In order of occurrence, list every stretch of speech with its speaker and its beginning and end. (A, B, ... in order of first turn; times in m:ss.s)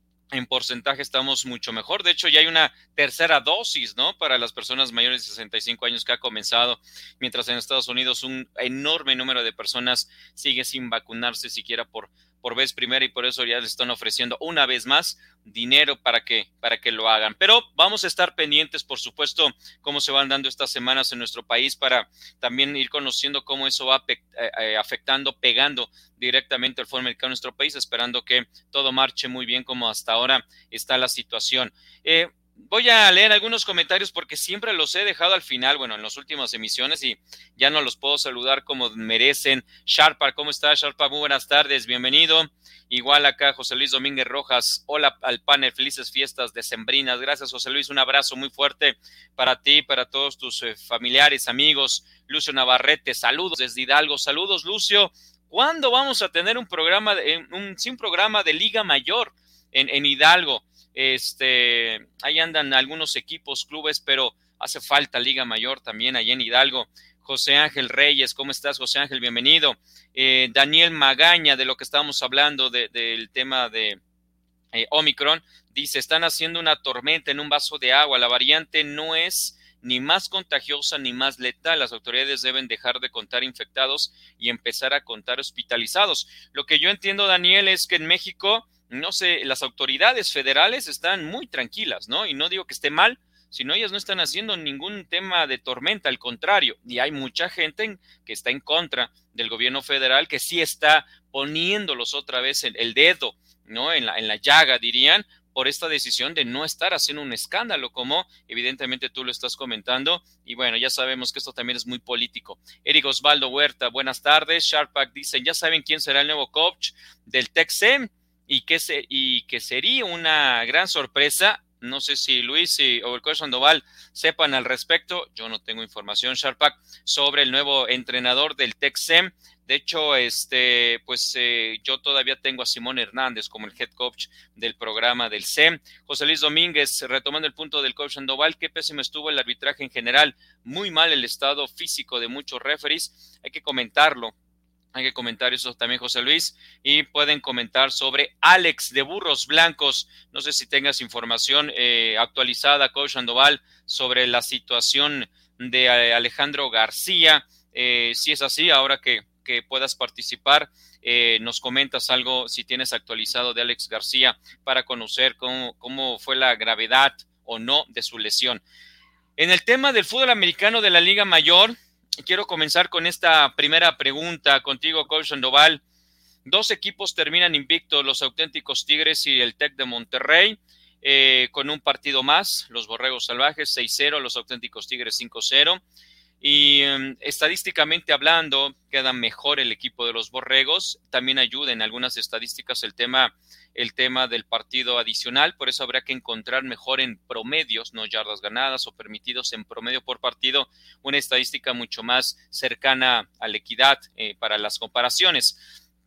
0:00.3-1:14.0 A
1:14.7-2:24.3 A
2:24.9-2:48.6 A
2:49.4-2:55.8 A
2:56.4-3:05.8 A
3:06.4-3:25.6 A